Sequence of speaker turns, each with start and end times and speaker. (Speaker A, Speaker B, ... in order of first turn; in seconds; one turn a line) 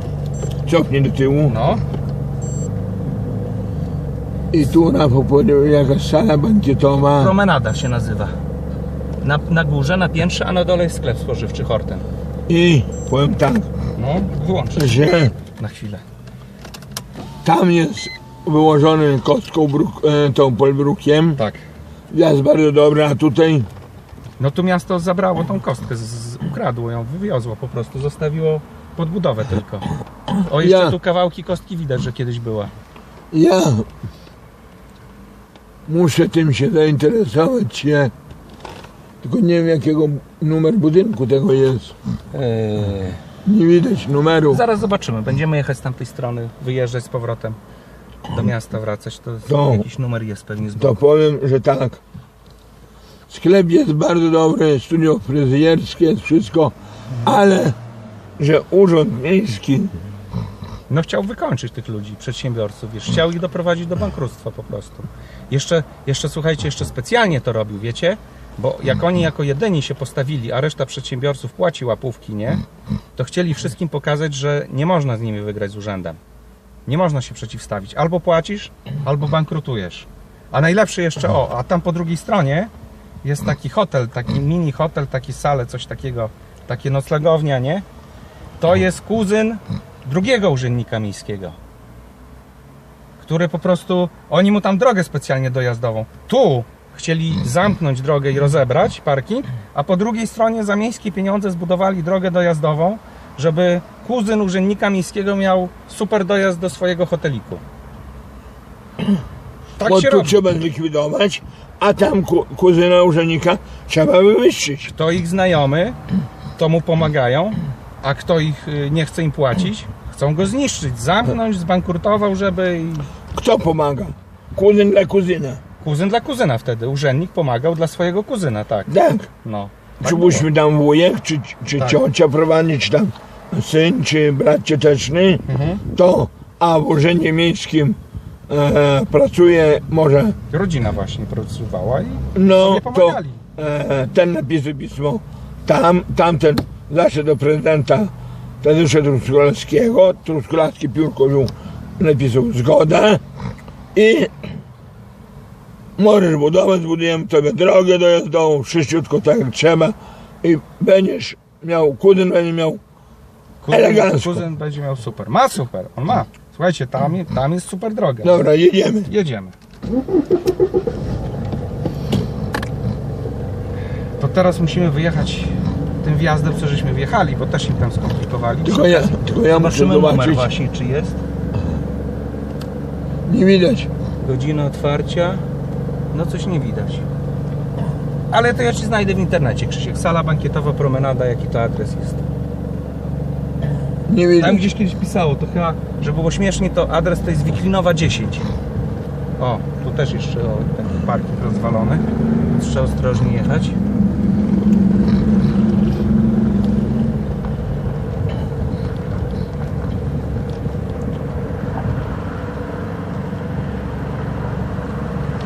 Speaker A: 0.7-1.5
Speaker B: 1.5-1.8
Speaker A: 4.5-7.3
Speaker B: 7.1-8.3
Speaker B: 9.2-12.0
Speaker A: 12.5-13.7
Speaker B: 14.0-16.0
Speaker A: 14.8-15.3
Speaker A: 17.4-21.4
Speaker B: 21.4-21.6
Speaker A: 22.1-23.7
Speaker B: 24.4-32.7
Speaker A: 30.6-30.9
Speaker A: 33.3-33.9
Speaker A: 35.9-38.1
Speaker A: 39.2-41.9
Speaker B: 42.3-43.2
Speaker A: 43.4-44.6
Speaker B: 44.5-47.6
Speaker B: 48.3-51.0
Speaker A: 49.5-49.8
Speaker A: 50.8-52.0
Speaker A: 53.3-57.8
Speaker A: 58.4-59.9
Speaker B: 60.9-72.6
Speaker B: 73.2-76.2
Speaker B: 76.8-82.7
Speaker B: 83.2-87.8
Speaker B: 88.6-91.6
Speaker B: 93.2-107.6
Speaker B: 109.8-110.4
Speaker A: 109.8-114.9
Speaker B: 114.9-116.0
Speaker B: 116.5-123.1
Speaker A: 123.3-125.6
Speaker B: 125.8-128.9
Speaker A: 128.9-129.3
Speaker B: 129.4-130.5
Speaker A: 130.0-138.0
Speaker B: 135.5-135.8
Speaker A: 138.5-140.3
Speaker B: 140.5-143.4
Speaker A: 142.3-148.1
Speaker A: 148.6-153.2
Speaker A: 153.9-154.3
Speaker A: 156.0-162.8
Speaker B: 163.6-168.4
Speaker A: 163.7-164.4
Speaker A: 168.2-169.1
Speaker B: 169.1-169.5
Speaker B: 174.2-181.2
Speaker A: 178.6-180.5
Speaker A: 183.2-183.9
Speaker B: 184.2-185.4
Speaker B: 186.1-187.1
Speaker B: 188.3-192.2
Speaker A: 194.1-194.7
Speaker B: 194.4-198.5
Speaker B: 199.4-203.8